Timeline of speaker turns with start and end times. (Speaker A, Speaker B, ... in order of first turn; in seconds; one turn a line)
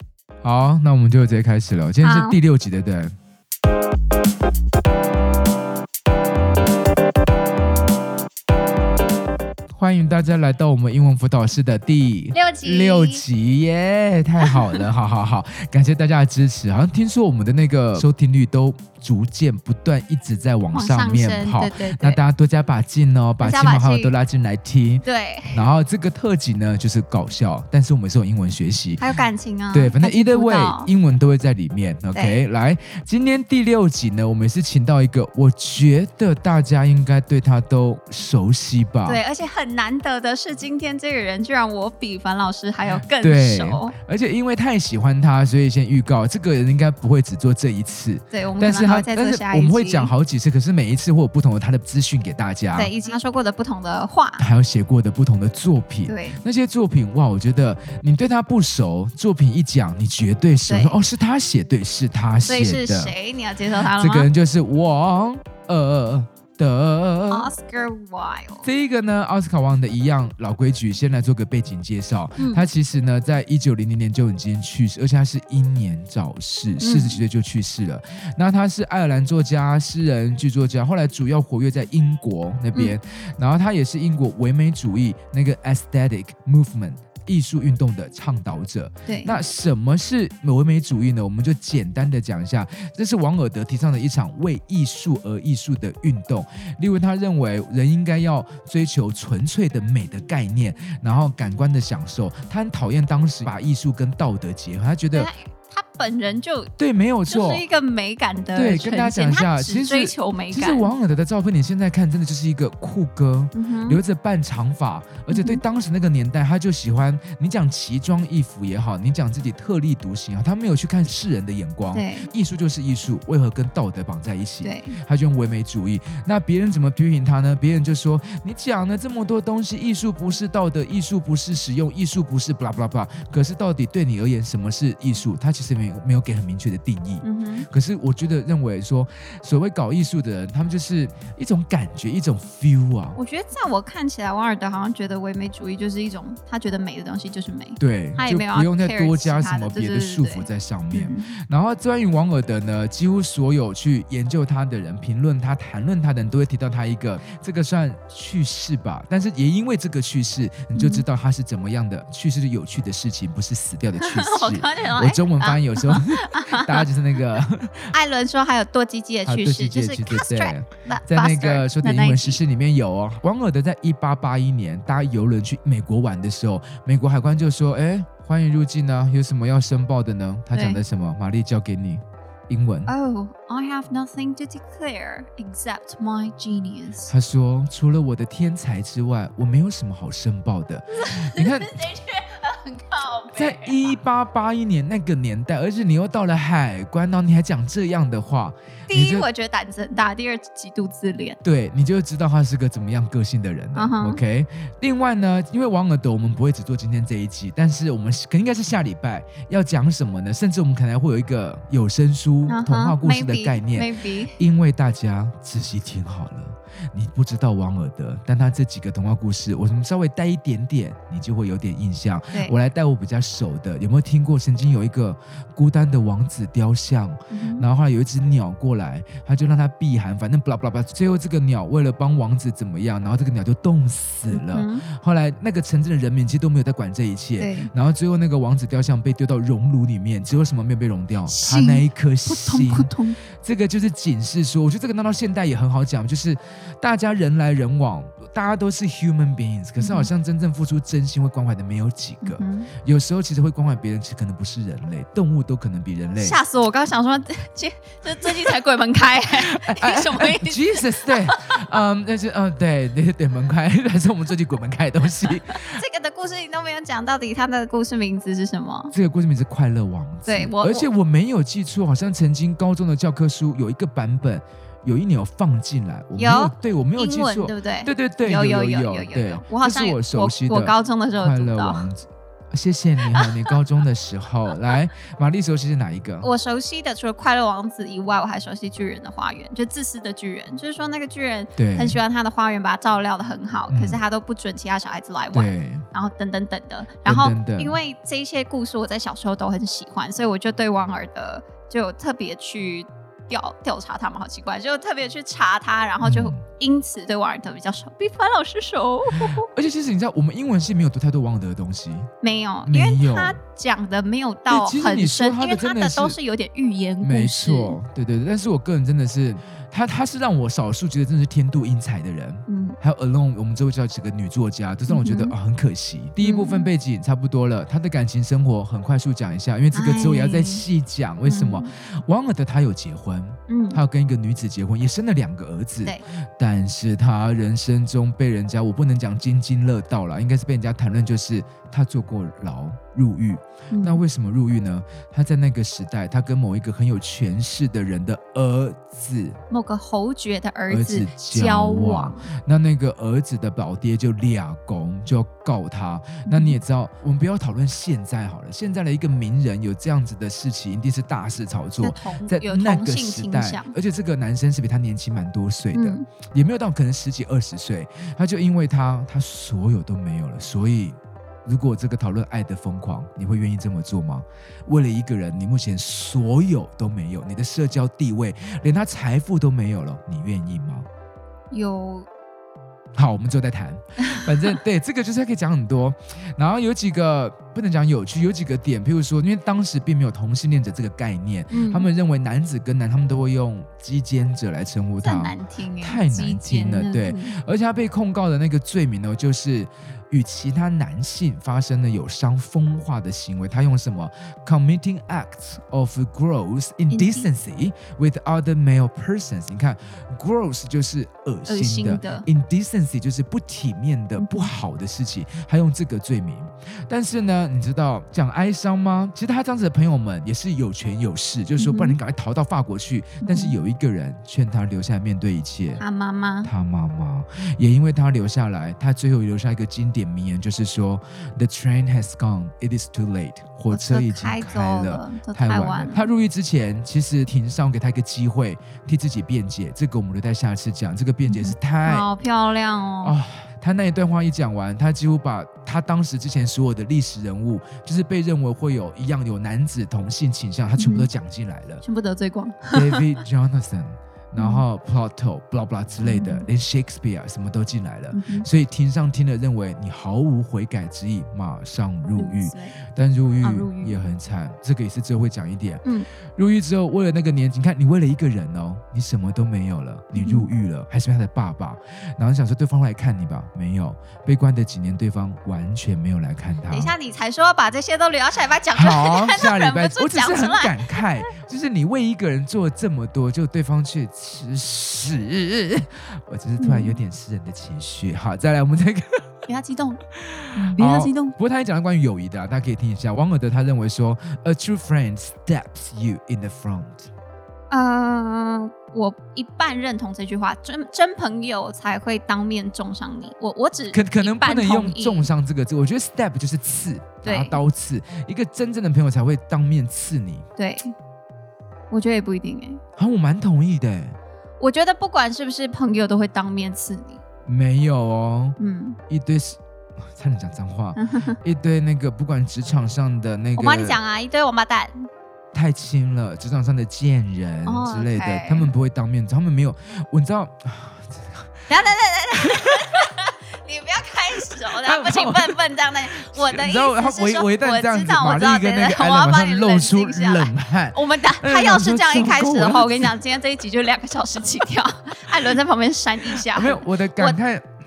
Speaker A: 0.4-3.1
Speaker B: 2.0-2.4
Speaker A: 9.7-29.0
Speaker B: 12.3-13.2
Speaker B: 20.7-22.2
Speaker B: 23.4-24.1
Speaker B: 25.0-25.6
Speaker B: 29.0-30.9
Speaker A: 29.7-39.2
Speaker B: 32.1-32.4
Speaker B: 39.0-43.9
Speaker A: 43.0-52.9
Speaker B: 48.3-50.1
Speaker B: 52.7-54.4
Speaker A: 54.4-63.1
Speaker B: 56.1-56.4
Speaker B: 60.7-61.0
Speaker B: 62.5-64.3
Speaker A: 63.8-67.5
Speaker B: 67.3-68.7
Speaker A: 68.6-105.3
Speaker B: 72.4-72.7
Speaker B: 76.8-77.2
Speaker B: 89.1-89.4
Speaker B: 105.1-106.7
Speaker A: 106.8-107.7
Speaker B: 107.3-110.9
Speaker A: 108.5-143.2
Speaker B: 113.5-114.0
Speaker B: 115.3-115.6
Speaker B: 121.9-122.3
Speaker B: 124.6-125.0
Speaker B: 137.2-137.7
Speaker B: 143.2-151.3
Speaker A: 147.8-167.9
Speaker B: 160.7-161.0
Speaker B: 164.0-166.8
Speaker B: 167.9-172.4
Speaker A: 169.3-182.9
Speaker B: 180.5-180.8
Speaker B: 182.9-187.1
Speaker A: 187.1-191.8
Speaker B: 190.9-194.0
Speaker A: 193.3-199.3
Speaker B: 198.9-201.4
Speaker A: 201.4-256.4
Speaker B: 203.8-204.2
Speaker B: 212.5-214.4
Speaker B: 227.3-227.6
Speaker B: 234.3-234.8
Speaker B: 237.4-237.7
Speaker B: 241.3-243.2
Speaker B: 249.8-250.1
Speaker B: 252.2-252.7
Speaker B: 256.2-261.6
Speaker A: 259.6-265.8
Speaker B: 265.6-268.9
Speaker A: 268.9-286.3
Speaker B: 270.3-270.9
Speaker B: 276.2-281.9
Speaker B: 286.2-309.5
Speaker A: 291.6-292.0
Speaker A: 293.7-294.0
Speaker A: 295.3-295.9
Speaker A: 297.1-297.8
Speaker A: 306.0-306.4
Speaker A: 309.2-312.1
Speaker B: 312.2-317.8
Speaker A: 312.7-313.4
Speaker A: 314.5-316.2
Speaker A: 317.0-349.4
Speaker B: 322.5-322.8
Speaker B: 324.9-325.3
Speaker B: 326.2-326.7
Speaker B: 329.7-330.6
Speaker B: 331.2-331.7
Speaker B: 333.5-333.8
Speaker B: 343.7-344.0
Speaker B: 349.5-352.3
Speaker A: 350.7-380.9
Speaker B: 356.3-356.6
Speaker B: 361.8-363.7
Speaker B: 365.7-366.0
Speaker B: 381.5-382.1
Speaker A: 382.9-425.8
Speaker B: 391.5-391.9
Speaker B: 395.0-397.4
Speaker B: 406.9-407.3
Speaker B: 411.5-412.2
Speaker B: 414.2-414.5
Speaker B: 421.6-422.0
Speaker B: 423.2-423.6
Speaker B: 425.8-426.5
Speaker A: 426.4-442.1
Speaker B: 433.7-436.0
Speaker B: 441.3-443.1
Speaker A: 443.0-451.8
Speaker B: 450.8-451.1
Speaker B: 451.8-453.1
Speaker A: 452.7-476.9
Speaker B: 454.4-454.6
Speaker B: 456.0-456.4
Speaker B: 458.1-458.5
Speaker B: 462.2-462.8
Speaker B: 463.4-464.0
Speaker B: 470.1-470.5
Speaker B: 476.7-481.1
Speaker A: 478.7-489.3
Speaker B: 486.6-487.0
Speaker B: 489.5-490.0
Speaker A: 490.1-497.1
Speaker B: 490.6-491.4
Speaker B: 497.7-505.3
Speaker A: 503.9-510.5
Speaker B: 507.2-507.6
Speaker B: 510.6-510.9
Speaker B: 511.9-512.8
Speaker A: 513.0-514.2
Speaker B: 514.6-517.2
Speaker A: 517.5-518.6
Speaker B: 518.6-519.0
Speaker A: 519.1-524.0
Speaker B: 521.0-521.4
Speaker B: 523.6-525.1
Speaker A: 525.5-531.7
Speaker B: 527.6-528.7
Speaker B: 531.7-547.4
Speaker A: 532.4-532.7
Speaker A: 534.8-535.6
Speaker A: 536.1-543.1
Speaker A: 546.3-547.7